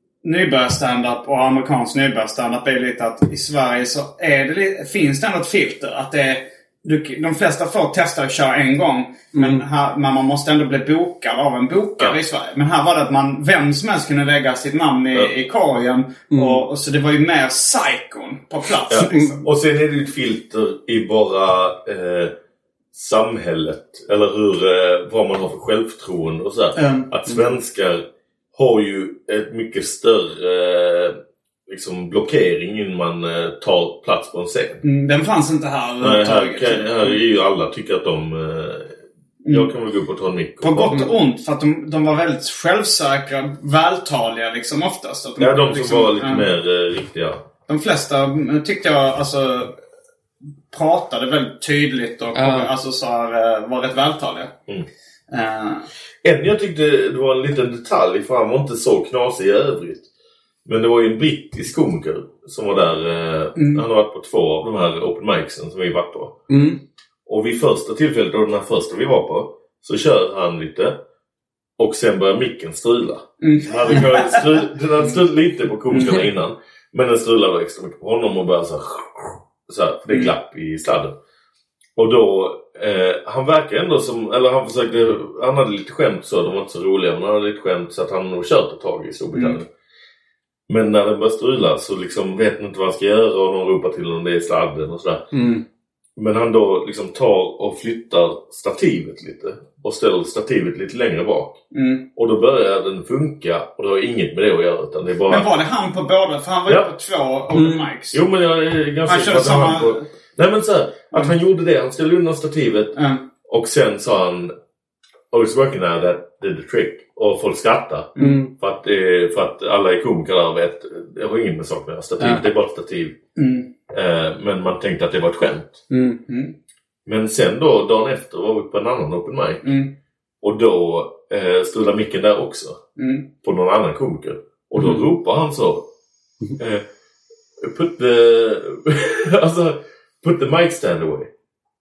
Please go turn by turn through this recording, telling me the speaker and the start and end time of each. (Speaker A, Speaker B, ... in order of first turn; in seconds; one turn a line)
Speaker A: 0.2-19.4
Speaker B: 9.3-9.6
Speaker B: 16.3-16.6
Speaker C: 18.9-22.3
Speaker C: 22.9-31.2
Speaker A: 26.8-27.1
Speaker C: 31.7-34.8
Speaker A: 34.8-37.2
Speaker C: 36.0-39.0
Speaker A: 39.4-39.7
Speaker C: 39.5-41.1
Speaker A: 40.6-46.5
Speaker C: 45.4-47.4
Speaker A: 47.7-49.7
Speaker A: 50.7-54.5
Speaker B: 52.4-52.7
Speaker A: 55.3-55.9
Speaker C: 56.2-60.0
Speaker C: 60.6-66.4
Speaker A: 63.5-63.8
Speaker A: 66.5-66.8
Speaker C: 67.3-71.0
Speaker C: 71.8-81.2
Speaker A: 73.4-74.7
Speaker A: 75.9-76.2
Speaker B: 76.0-76.3
Speaker C: 82.0-89.7
Speaker C: 90.7-95.3
Speaker A: 95.3-95.6
Speaker C: 96.2-101.6
Speaker A: 101.7-102.0
Speaker C: 102.1-105.5
Speaker A: 105.3-108.2
Speaker B: 107.6-107.9
Speaker C: 108.1-114.5
Speaker A: 109.0-110.0
Speaker A: 113.0-113.2
Speaker C: 115.3-123.2
Speaker B: 118.2-118.5
Speaker B: 122.2-122.5
Speaker A: 123.4-123.7
Speaker C: 123.9-125.8
Speaker B: 125.9-126.2
Speaker A: 126.3-126.5
Speaker C: 127.0-129.7
Speaker A: 129.6-129.9
Speaker C: 130.4-132.8
Speaker A: 133.0-133.3
Speaker C: 133.4-135.9
Speaker B: 134.8-135.0
Speaker C: 136.6-136.8
Speaker C: 137.6-141.3